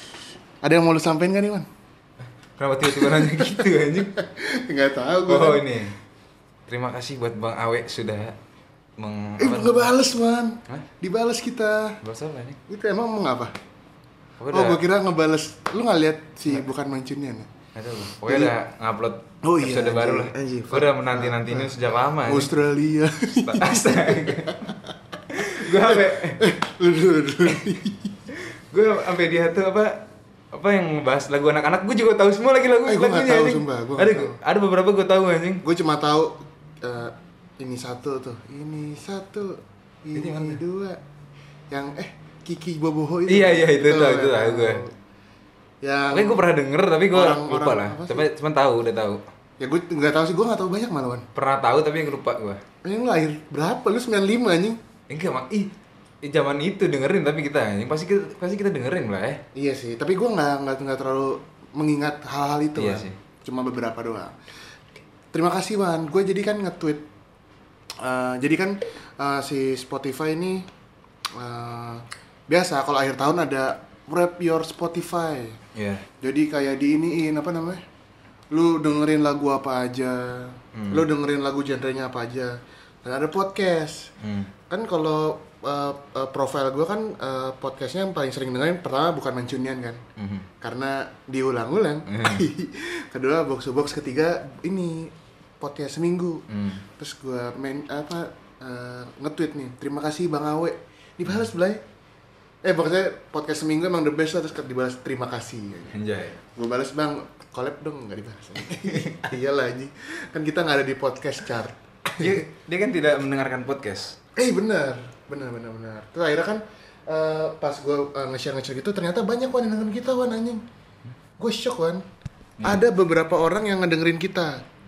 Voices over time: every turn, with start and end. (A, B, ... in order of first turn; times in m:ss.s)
0:00.6-0:01.7 A
0:02.6-0:04.2 B
0:02.9-0:05.7 A
0:05.3-0:06.0 B
0:06.7-0:08.4 B
0:09.0-0:09.9 B
0:09.4-0:12.0 A
0:12.0-0:12.6 B
0:12.7-0:13.6 A
0:14.4-0:14.8 B
0:14.5-0:17.5 A
0:17.7-0:22.5 B
0:18.3-0:18.5 A
0:19.4-0:28.2 A
0:23.4-0:24.7 B
0:25.3-0:26.5 B
0:28.3-0:35.6 B
0:32.9-0:34.4 A
0:35.6-0:41.0 A
0:40.2-0:40.6 B
0:41.7-0:44.9 A
0:43.3-0:44.8 B
0:45.8-0:46.4 A
0:46.1-0:49.3 B
0:47.1-0:48.3 A
0:49.6-0:51.3 A
0:51.4-0:52.6 B
0:52.8-0:54.8 A
0:55.1-0:59.4 B
0:59.6-1:04.4 A
1:02.8-1:03.2 B
1:05.3-1:07.0 A
1:08.0-1:10.7 A
1:11.4-1:15.6 A
1:15.7-1:16.1 B
1:16.2-1:17.8 A
1:18.5-1:24.1 A
1:20.7-1:21.1 B
1:24.2-1:24.5 B
1:24.7-1:30.0 A
1:30.2-1:30.5 B
1:30.6-1:41.8 A
1:32.1-1:32.5 B
1:36.5-1:36.8 B
1:42.6-1:46.0 A
1:45.9-1:46.4 B
1:46.5-1:52.4 A
1:48.8-1:49.3 B
1:52.2-1:54.2 B
1:54.4-2:00.6 A
2:01.4-2:02.0 A
2:02.6-2:02.9 B
2:02.6-2:04.6 A